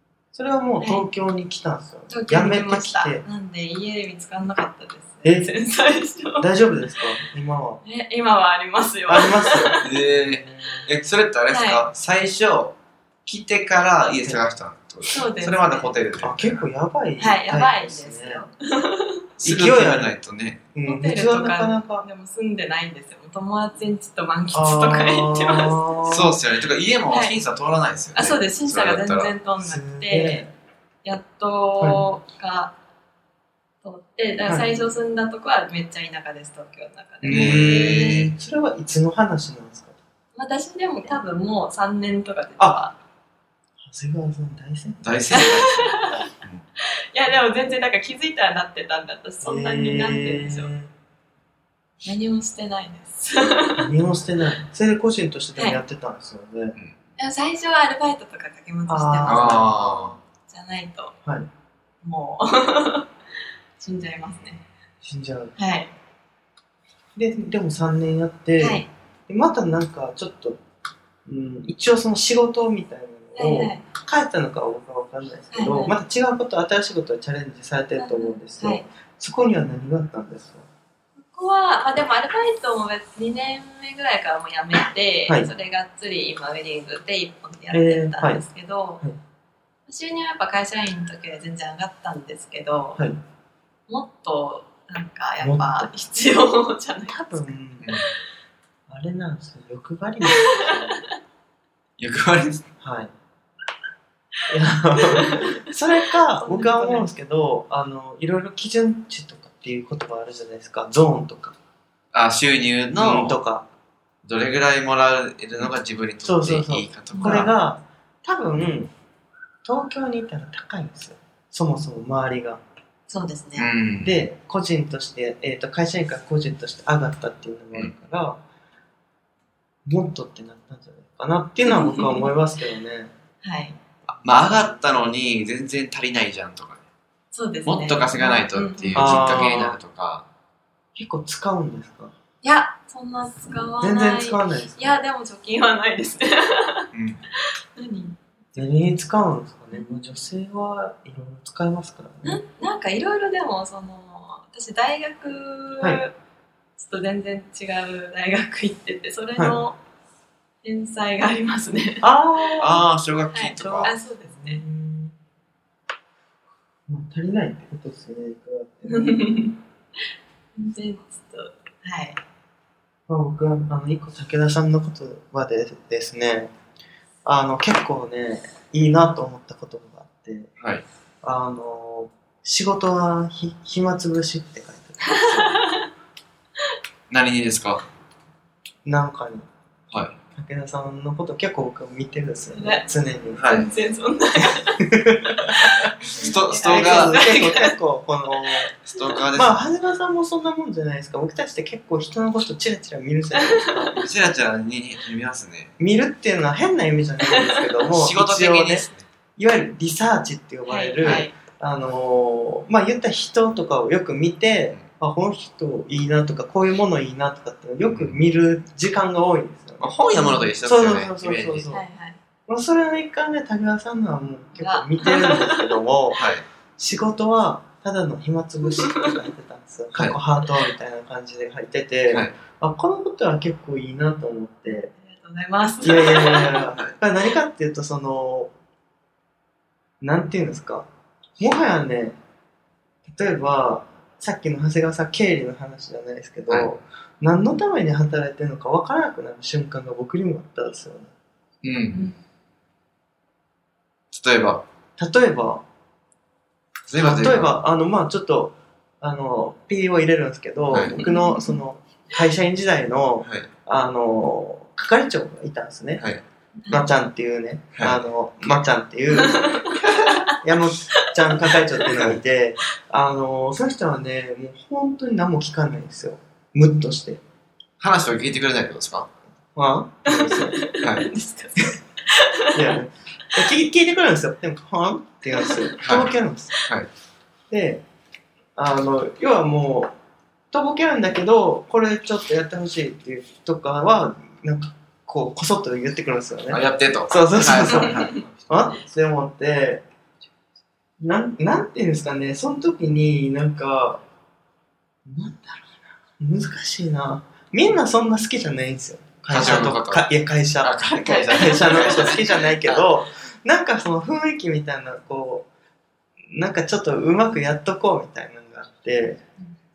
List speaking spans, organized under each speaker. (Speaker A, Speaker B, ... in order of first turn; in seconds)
Speaker A: 0.3-3.2, 5.2-5.5, 6.4-7.8, 9.1-10.9, 16.2-18.5, 19.4-20.1, 20.7-22.1, 24.5-26.3, 29.6-30.5, 31.8-32.1, 34.4-34.9, 37.2-39.9, 42.6-42.9, 43.8-46.2, 49.4-50.9, 53.8-56.8, 58.9-59.8, 65.0-65.5, 67.2-70.6, 71.2-80.7, 87.7-88.5, 95.4-95.9, 97.1-97.9, 98.9-101.0, 102.8-103.1, 104.5-111.6, 112.9-113.7, 116.2-118.9, 119.6-122.6, 124.0-128.4, 129.9-133.1, 138.9-139.8, 140.9-142.1, 143.8-145.0, 148.6-152.4, 162.0-162.8, 163.6-165.1, 166.9-169.2, 173.1-176.5, 177.2-180.5, 181.2-185.6, 188.8-189.5, 190.3-193.5, 194.9-195.9, 196.6-198.7, 199.3-204.0, 205.8-219.9, 220.6-221.8, 222.5-226.2, 226.8-234.9, 235.8-238.5, 240.0-240.9, 241.4-242.2, 243.1-251.1, 255.0-255.6, 257.0-266.1, 266.7-277.2, 279.6-280.6, 282.5-286.6, 287.5-287.8, 288.6-289.9, 290.5-299.9, 301.0-304.0, 305.1-315.5, 316.3-319.2
Speaker B: 0.8-1.1, 2.1-6.5, 7.8-9.9, 11.5-11.8, 15.0-15.9, 17.2-19.2, 20.9-26.1, 27.1-27.4, 28.1-30.4, 31.0-32.8, 33.8-38.2, 40.3-43.0, 45.3-46.2, 47.1-50.7, 52.0-53.9, 55.6-55.8, 57.2-59.8, 60.4-61.1, 62.0-63.1, 63.8-64.6, 65.6-65.9, 68.6-68.9, 73.3-73.8, 75.5-76.0, 78.0-78.8, 81.2-89.0, 89.9-93.1, 93.9-98.1, 100.3-100.8, 105.1-105.5, 106.3-107.1, 117.1-117.5, 123.1-123.7, 131.7-132.3, 133.4-133.8, 137.3-139.7, 142.4-146.9, 147.8-148.2, 149.7-150.2, 152.2-156.1, 156.8-159.8, 160.6-162.1, 163.3-164.6, 168.8-169.6, 170.6-172.2, 185.0-185.9, 192.5-192.9, 193.5-197.8, 207.2-207.7, 210.6-211.3, 220.1-220.5, 221.7-222.2, 224.6-225.7, 228.8-229.1, 234.7-236.7, 260.9-261.6, 266.6-266.9, 269.1-270.4, 271.0-271.6, 280.1-282.7, 285.4-285.6, 309.4-309.7, 310.9-312.2
Speaker C: 9.8-16.6, 19.4-20.6, 26.1-29.3, 37.2-38.4, 45.0-46.6, 59.2-60.2, 97.8-98.1, 102.0-102.6, 112.1-113.4, 114.2-117.5, 123.6-124.2, 134.1-136.8, 137.7-140.2, 146.9-147.2, 162.6-163.9, 180.6-180.8, 187.1-187.9, 193.4-193.7, 196.2-197.2, 198.8-199.6, 203.9-205.7, 207.8-209.1, 211.0-211.3, 217.9-218.2, 219.8-221.7, 226.1-226.4, 251.6-252.0, 254.1-254.7, 256.9-257.6, 260.7-261.0, 263.2-263.5, 267.8-268.6, 277.8-279.1, 280.8-281.1, 285.8-286.1, 286.6-286.9, 296.5-298.2, 309.3-310.1, 310.6-312.9